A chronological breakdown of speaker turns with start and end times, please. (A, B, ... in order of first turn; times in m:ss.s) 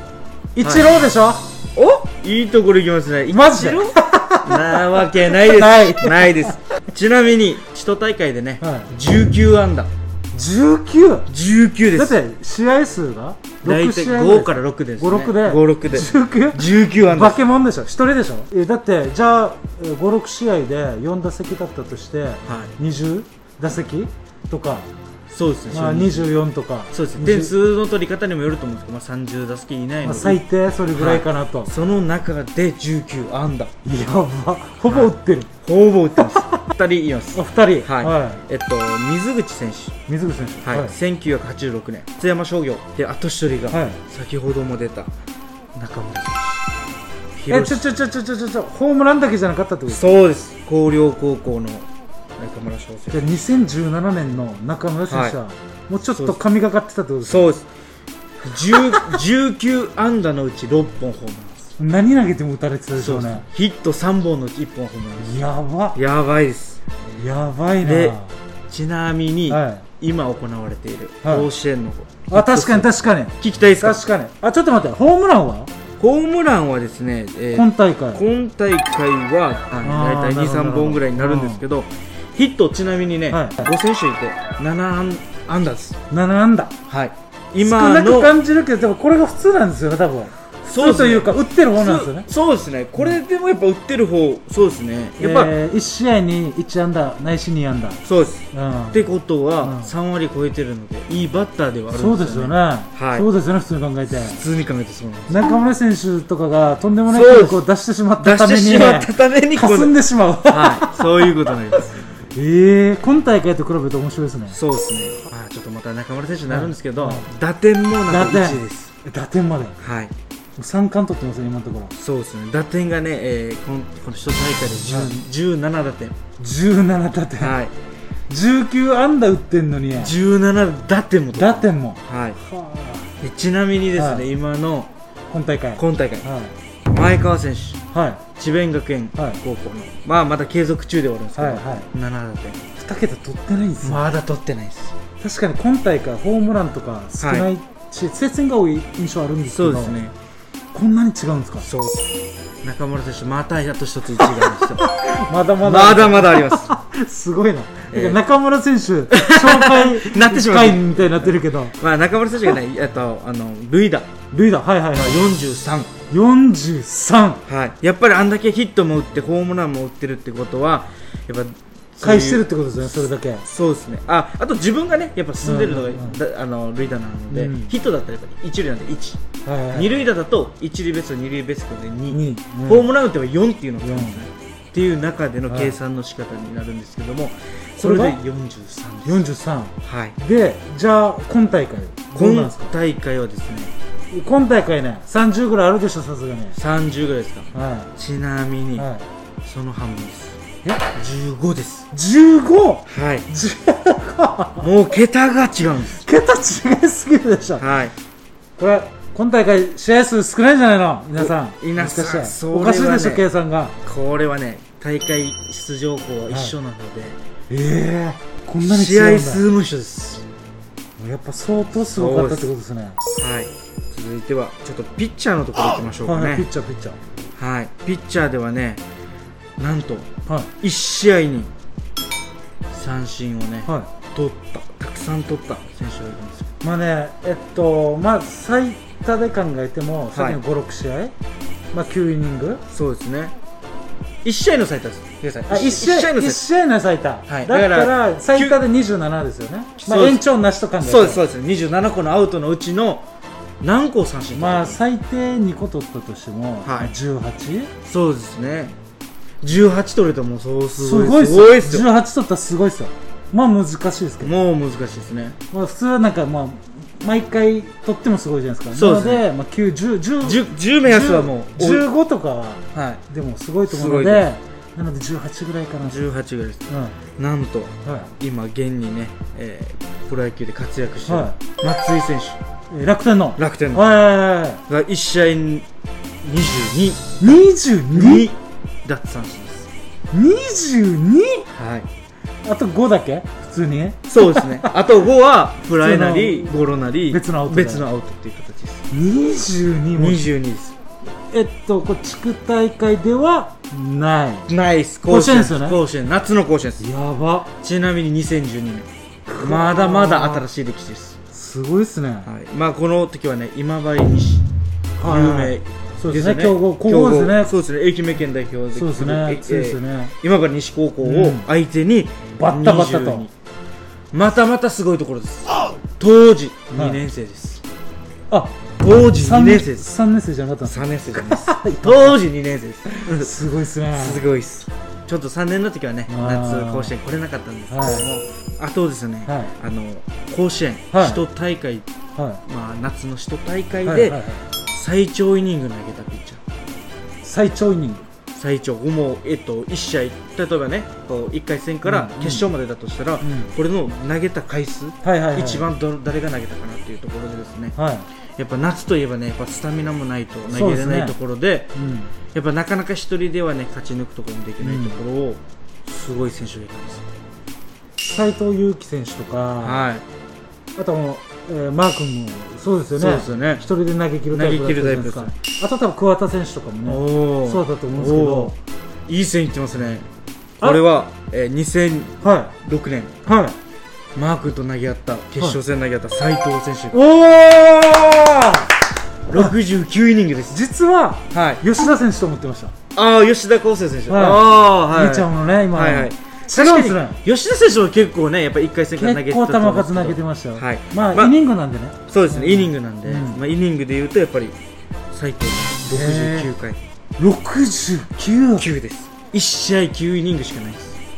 0:00.6-0:01.5 A
0:01.8-0:09.9 B
0:03.3-0:06.5 A
0:08.6-0:08.9 A
0:10.3-0:11.3 A
0:11.3-0:12.2 B
0:11.9-0:24.9 A
0:13.6-0:17.4 B
0:22.5-0:22.8 B
0:25.3-0:26.3 B
0:25.7-0:27.5 A
0:26.9-0:33.7 B
0:30.0-0:31.7 A
0:33.8-0:35.5 A
0:34.9-0:40.0 B
0:36.2-0:36.6 A
0:37.3-0:38.4 A
0:40.1-0:41.0 A
0:40.6-0:45.1 B
0:43.7-0:44.0 A
0:45.8-0:46.7 B
0:47.4-0:47.8 B
0:47.5-0:50.0 A
0:49.9-0:51.9 B
0:52.4-0:53.2 B
0:53.1-0:57.5 A
0:55.1-0:55.4 B
0:56.1-0:56.4 B
0:57.2-0:57.7 B
0:58.4-1:01.7 B
0:58.8-0:59.2 A
1:01.8-1:03.4 A
1:03.0-1:05.4 B
1:05.2-1:06.0 A
1:06.0-1:06.8 B
1:07.2-1:08.3 A
1:07.8-1:14.0 B
1:09.5-1:09.8 A
1:12.3-1:15.7 A
1:16.0-1:26.0 B
1:17.5-1:18.2 A
1:19.8-1:21.6 A
1:23.3-1:23.7 A
1:26.1-1:26.7 A
1:26.9-1:28.4 B
1:27.6-1:32.3 A
1:30.6-1:35.6 B
1:35.2-1:38.0 A
1:38.0-1:43.3 B
1:38.5-1:39.0 A
1:39.6-1:39.9 A
1:41.9-1:44.4 A
1:44.1-1:45.5 B
1:45.3-1:51.5 A
1:47.1-1:47.6 B
1:48.2-1:50.0 B
1:50.5-1:52.1 B
1:52.3-1:54.6 A
1:54.5-1:58.9 B
1:56.5-1:57.3 A
1:58.1-1:59.8 A
1:59.8-2:00.1 B
2:00.6-2:01.9 A
2:02.0-2:06.2 B
2:04.9-2:05.2 A
2:06.4-2:07.6 A
2:07.4-2:07.7 B
2:08.3-2:10.1 A
2:10.0-2:12.4 B
2:11.4-2:13.1 A
2:13.2-2:14.9 B
2:14.0-2:14.3 A
2:15.3-2:16.6 A
2:15.8-2:16.3 B
2:16.9-2:17.8 B
2:17.9-2:18.2 A
2:18.4-2:22.6 B
2:21.4-2:21.9 A
2:22.8-2:24.0 A
2:23.8-2:25.0 B
2:25.2-2:30.0 A
2:27.2-2:27.5 B
2:29.5-2:30.2 B
2:30.7-2:31.7 A
2:31.6-2:32.1 B
2:32.6-2:34.9 B
2:34.2-2:41.8 A
2:35.6-2:36.7 B
2:37.9-2:38.2 B
2:39.1-2:44.1 B
2:44.3-2:45.2 A
2:45.0-2:45.9 B
2:46.1-2:47.4 A
2:47.5-2:59.2 B
2:52.0-2:53.5 A
2:55.4-2:56.2 A
2:57.3-2:57.7 A
2:59.4-2:59.9 A
2:59.7-3:09.3 B
3:02.1-3:02.9 A
3:03.8-3:04.2 A
3:05.5-3:05.8 A
3:07.8-3:08.2 A
3:09.0-3:12.7 A
3:09.8-3:10.2 B
3:12.1-3:13.7 B
3:14.1-3:16.6 A
3:16.6-3:18.9 B
3:17.5-3:17.9 A
3:18.8-3:19.1 A
3:19.4-3:21.9 B
3:21.9-3:24.7 A
3:22.9-3:23.3 B
3:24.6-3:26.1 B
3:26.0-3:27.6 A
3:27.6-3:27.9 B
3:28.6-3:33.8 A
3:31.1-3:33.3 B
3:33.8-3:37.2 B
3:36.3-3:36.6 A
3:37.5-3:39.4 A
3:38.6-3:40.2 B
3:41.0-3:43.0 A
3:41.9-3:42.5 B
3:43.2-3:46.5 B
3:46.0-3:47.0 A
3:47.4-3:48.8 B
3:49.6-3:51.5 B
3:52.7-3:56.5 B
3:56.6-4:01.1 A
4:00.2-4:00.4 B
4:01.7-4:02.6 A
4:02.7-4:03.4 B
4:04.2-4:06.4 B
4:05.5-4:11.2 A
4:07.3-4:08.6 B
4:09.8-4:10.2 B
4:10.8-4:13.1 B
4:13.6-4:14.8 B
4:14.4-4:17.7 A
4:16.6-4:16.9 B
4:17.8-4:18.8 B
4:19.4-4:21.9 B
4:20.8-4:24.3 A
4:24.2-4:25.4 B
4:25.5-4:36.0 A
4:28.7-4:29.2 B
4:30.2-4:31.9 B
4:32.7-4:33.0 B
4:33.7-4:34.3 B
4:35.8-4:36.6 B
4:36.7-4:37.0 A
4:37.2-4:42.4 B
4:37.8-4:38.1 A
4:41.1-4:41.4 A
4:42.7-4:44.6 A
4:43.4-4:43.9 B
4:44.7-4:45.7 B
4:46.2-4:49.7 B
4:47.2-4:48.3 A
4:50.1-4:51.5 A
4:51.5-4:51.9 B
4:52.4-4:54.7 A
4:54.1-4:58.8 B
4:55.8-4:57.9 A
4:58.9-5:00.3 A
4:59.9-5:00.8 B
5:01.3-5:04.5 A
5:04.5-5:06.9 B
5:05.1-5:05.8 A
5:06.8-5:07.5 A
5:07.6-5:08.9 B
5:09.3-5:10.5 A
5:09.4-5:11.2 B
5:11.3-5:12.3 A
5:12.3-5:14.4 B
5:15.0-5:17.5 A
5:15.0-5:23.3 B
5:18.8-5:20.1 A
5:21.0-5:21.5 A
5:22.4-5:23.3 A
5:24.1-5:27.6 B
5:26.7-5:27.0 A
5:28.3-5:32.2 A
5:28.8-5:29.9 B
5:30.6-5:33.3 B
5:33.0-5:34.2 A
5:33.9-5:41.9 B
5:36.1-5:36.9 A
5:37.7-5:38.1 A
5:39.3-5:39.5 A
5:40.9-5:41.2 A
5:42.2-5:42.4 A
5:42.4-5:46.4 B
5:43.8-5:44.4 A
5:47.2-5:48.1 A
5:48.3-5:57.8 B
5:51.8-5:52.5 A
5:53.2-5:53.6 A
5:55.0-5:55.7 A
5:57.8-5:58.1 A
5:58.4-6:01.7 B
6:00.5-6:01.2 A
6:01.7-6:02.1 A
6:02.3-6:07.1 B
6:04.6-6:05.0 A
6:08.0-6:09.9 A
6:09.6-6:10.0 B
6:10.8-6:18.6 A
6:12.9-6:13.6 B
6:14.3-6:15.3 B
6:16.9-6:18.6 B
6:19.1-6:20.1 B
6:20.6-6:23.2 B
6:22.2-6:22.6 A
6:23.2-6:23.6 A
6:24.2-6:27.0 B
6:26.9-6:28.8 A
6:29.3-6:30.6 B
6:30.5-6:32.7 A
6:31.3-6:31.6 B
6:33.0-6:41.3 B
6:34.1-6:37.2 A
6:39.0-6:43.4 A
6:42.1-6:44.6 B
6:45.1-6:46.8 B
6:45.9-6:46.5 A
6:47.2-6:48.7 A
6:48.6-6:51.0 B